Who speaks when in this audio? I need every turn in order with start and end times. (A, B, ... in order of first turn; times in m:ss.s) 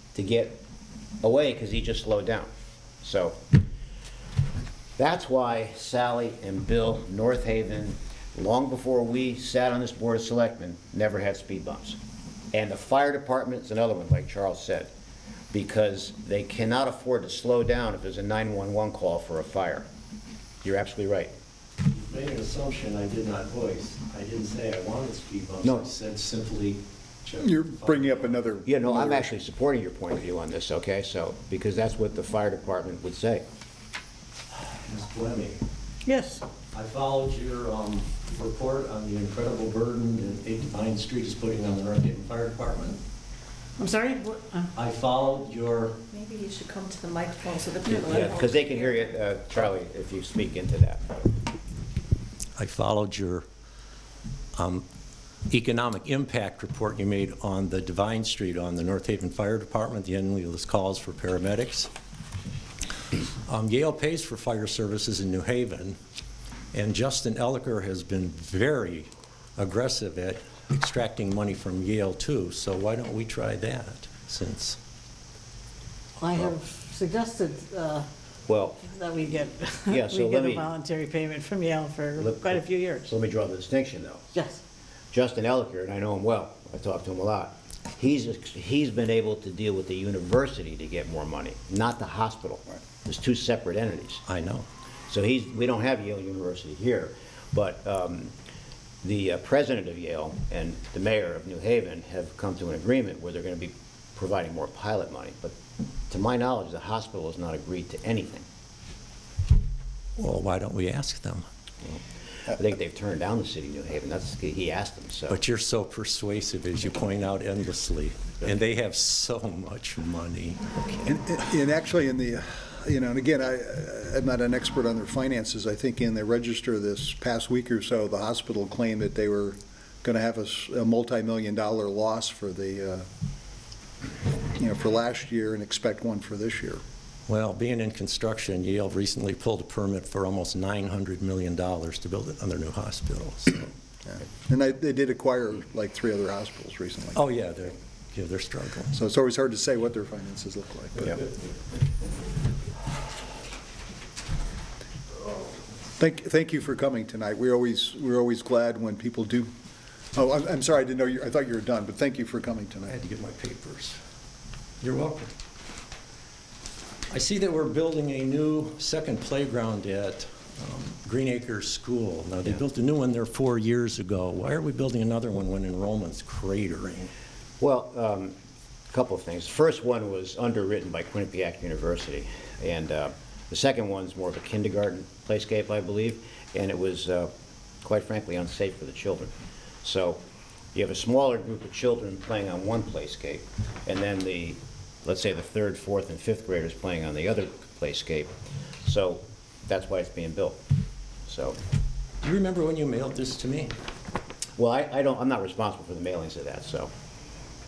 0:00.1-0:00.6 A
0:01.2-0:02.5 A
0:03.0-0:03.4 A
0:05.0-0:12.0 A
0:12.5-0:14.9 A
0:15.5-0:19.9 A
0:20.6-0:21.3 A
0:21.8-0:28.2 B
0:25.6-0:25.9 A
0:27.4-0:29.3 C
0:28.7-0:33.4 A
0:34.8-0:35.6 B
0:36.0-0:36.4 D
0:36.7-0:43.0 B
0:43.8-0:44.7 D
0:44.7-0:46.0 B
0:46.0-0:49.0 E
0:47.8-0:51.1 A
0:52.6-0:53.4 B
0:54.6-0:54.8 B
0:55.5-1:01.9 B
1:03.4-1:06.0 B
1:06.7-1:14.8 B
1:16.2-1:18.1 D
1:18.5-1:18.9 A
1:18.8-1:23.1 D
1:19.9-1:20.7 A
1:22.2-1:24.2 A
1:24.3-1:24.6 D
1:25.1-1:34.2 A
1:34.2-1:34.7 B
1:35.1-1:38.3 A
1:39.0-1:45.6 A
1:46.1-1:48.4 A
1:50.2-1:51.4 B
1:51.8-1:55.4 A
1:55.3-2:00.6 B
2:01.0-2:13.0 C
2:14.5-2:16.8 C
2:17.3-2:23.7 B
2:24.0-2:27.2 C
2:27.2-2:28.9 B
2:28.9-2:31.2 C
2:36.0-2:39.5 C
2:40.1-2:42.9 C
2:42.9-2:44.0 B
2:44.8-2:45.3 B
2:47.1-2:57.1 B
2:57.6-2:58.3 A
2:58.9-3:07.3 A
3:07.8-3:09.3 A
3:09.8-3:10.2 A
3:10.7-3:18.3 A
3:18.8-3:20.6 A
3:21.2-3:21.6 A
3:22.2-3:23.7 B
3:24.6-3:26.9 A